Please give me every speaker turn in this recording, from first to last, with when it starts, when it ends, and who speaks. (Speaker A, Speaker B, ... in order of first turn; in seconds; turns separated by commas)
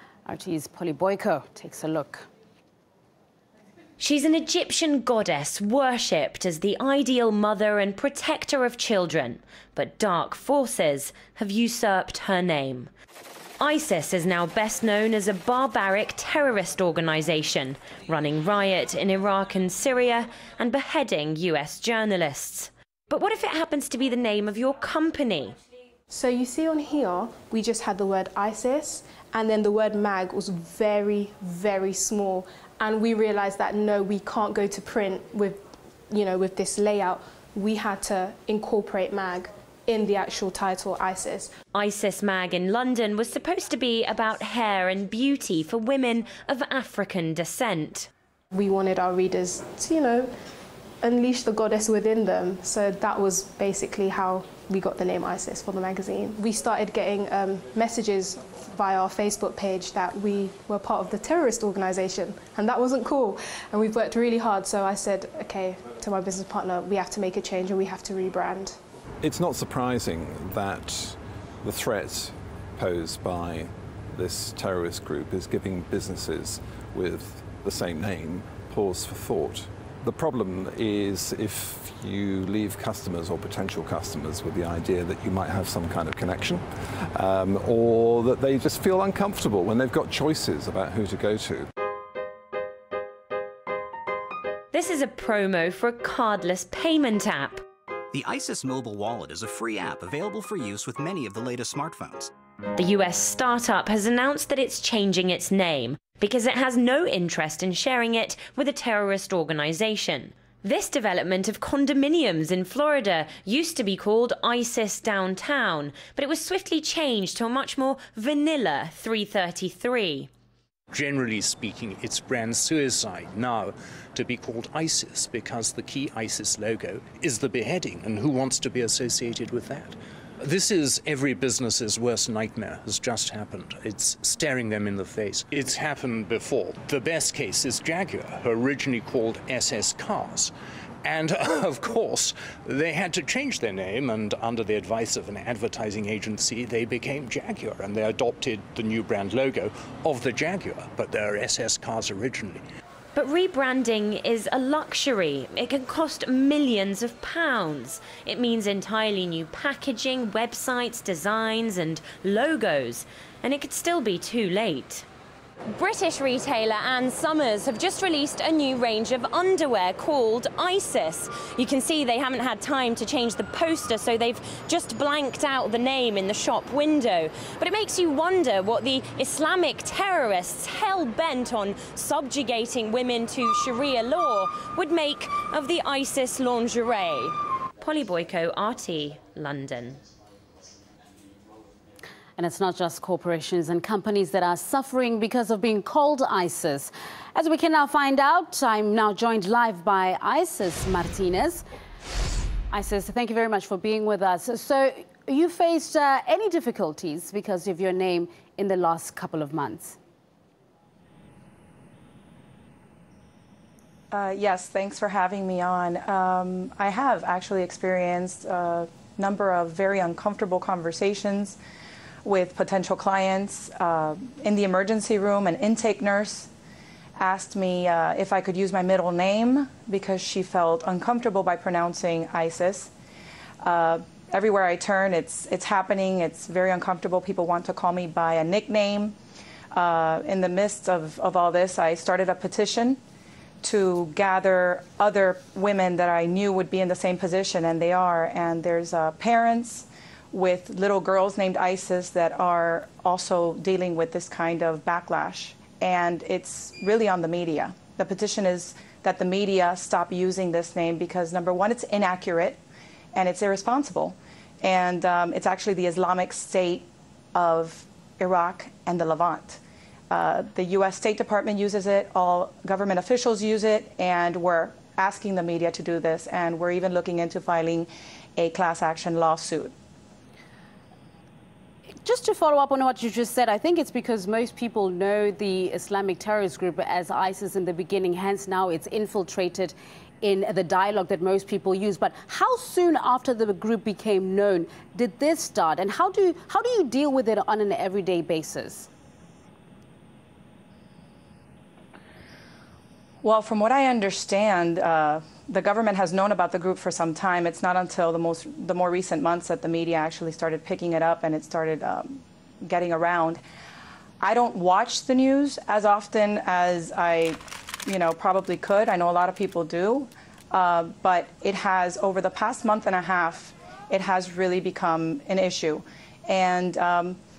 Speaker A: 0.3-2.3, Speaker B: 4.0-12.9, Speaker B: 13.6-25.6, Speaker C: 26.1-41.5, Speaker B: 41.8-48.1, Speaker C: 48.5-50.3, Speaker C: 51.0-68.8, Speaker D: 69.2-91.7, Speaker B: 94.7-97.6, Speaker E: 98.2-102.2, Speaker B: 102.8-120.3, Speaker F: 120.9-140.5, Speaker F: 141.0-152.6, Speaker B: 153.2-165.1, Speaker B: 165.7-190.0, Speaker A: 192.4-201.6, Speaker A: 202.7-210.0, Speaker G: 214.1-221.6, Speaker G: 222.2-226.5, Speaker G: 227.2-232.9, Speaker G: 233.6-239.2, Speaker G: 239.7-243.0, Speaker G: 243.6-262.6, Speaker G: 263.1-279.7, Speaker A: 282.0-298.9, Speaker G: 303.2-313.4, Speaker G: 314.2-327.2